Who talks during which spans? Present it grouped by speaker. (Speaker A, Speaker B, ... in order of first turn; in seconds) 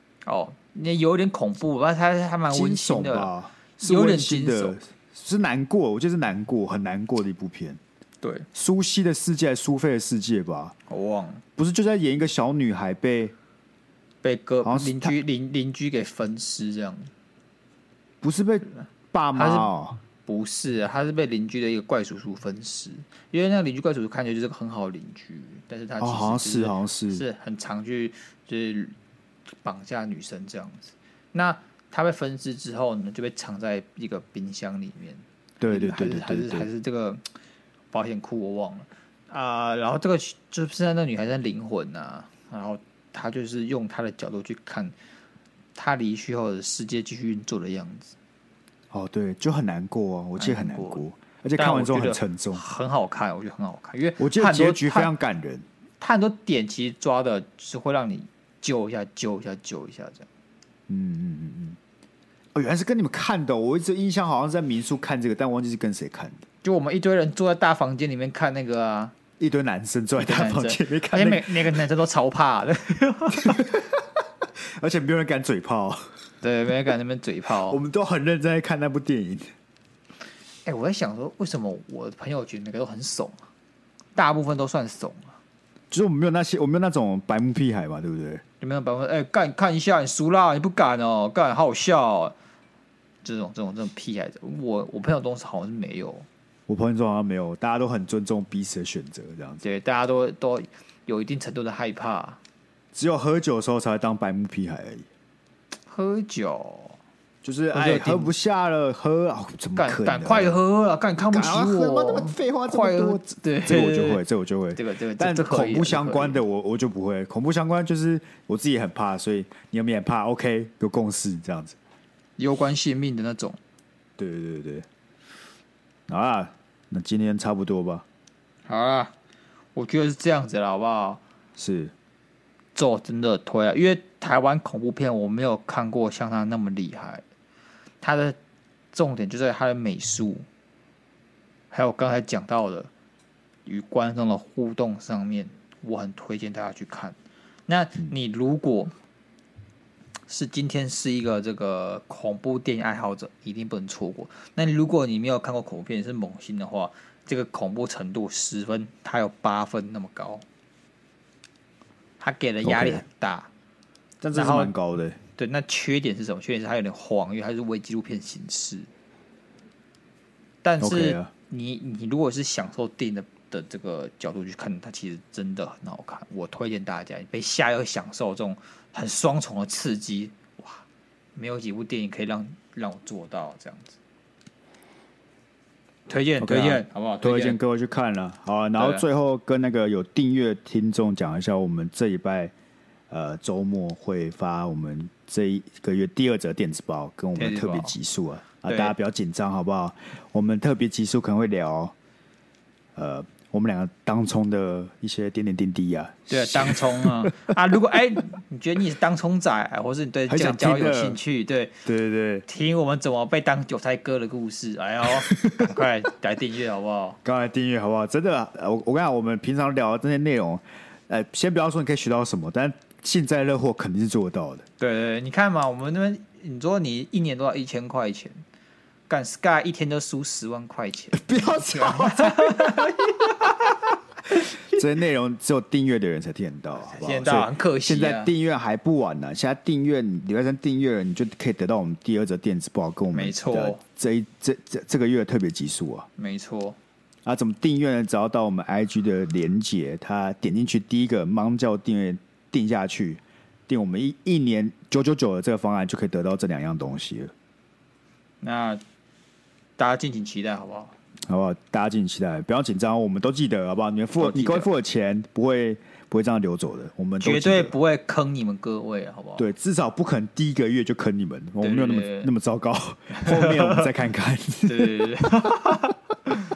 Speaker A: 0.2-4.8, 8.2-8.5, 10.9-11.4, 14.2-17.1, 19.4-19.7, 20.2-28.9, 29.6-37.2, 37.9-44.9, 45.8-48.1, 50.4-51.0, 51.6-55.1, 56.0-60.3, 66.6-69.1, 70.2-73.7, 76.4-77.8, 80.7-83.5, 84.2-85.4, 88.6-92.3, 93.2-96.3, 99.6-102.4, 105.9-107.0, 107.7-108.3, 109.8-114.2, 114.8-116.4, 122.4-123.6, 128.7-129.1, 129.8-131.2, 132.8-137.2, 138.0-138.4, 138.9-140.5, 141.7-142.9, 143.7-147.2, 147.7-148.9, 150.3-160.4, 162.2-163.5, 164.3-164.7, 165.4-168.9, 170.6-180.8, 181.4-184.0, 186.1-187.6, 188.8-189.0, 197.3-197.9, 198.7-198.9, 206.3-211.8, 212.5-217.2, 224.8-228.4, 229.1-234.8, 236.9-238.3, 243.1-243.8, 246.2-246.8, 258.4-258.8, 259.8-260.9, 264.2-264.7, 267.2-269.5, 271.6-272.3, 273.1-273.9, 274.6-276.3
Speaker B: 2.5-7.8, 8.5-10.8, 11.6-13.3, 14.6-15.2, 18.2-20.0, 26.0-27.2, 35.6-36.7, 48.9-52.6, 54.2-55.6, 60.9-61.8, 62.5-66.4, 69.4-71.8, 73.4-76.0, 77.7-79.5, 85.9-88.4, 96.7-99.6, 102.9-105.1, 107.4-110.6, 111.2-121.8, 124.2-124.9, 126.1-128.1, 131.6-131.9, 162.6-163.0, 164.2-165.2, 170.8-171.3, 186.4-192.5, 193.1-201.9, 203.0-207.5, 210.3-211.2, 211.8-212.5, 215.0-215.7, 217.2-224.7, 231.1-232.9, 234.7-246.1, 247.2-257.3, 261.3-267.7, 269.4-275.1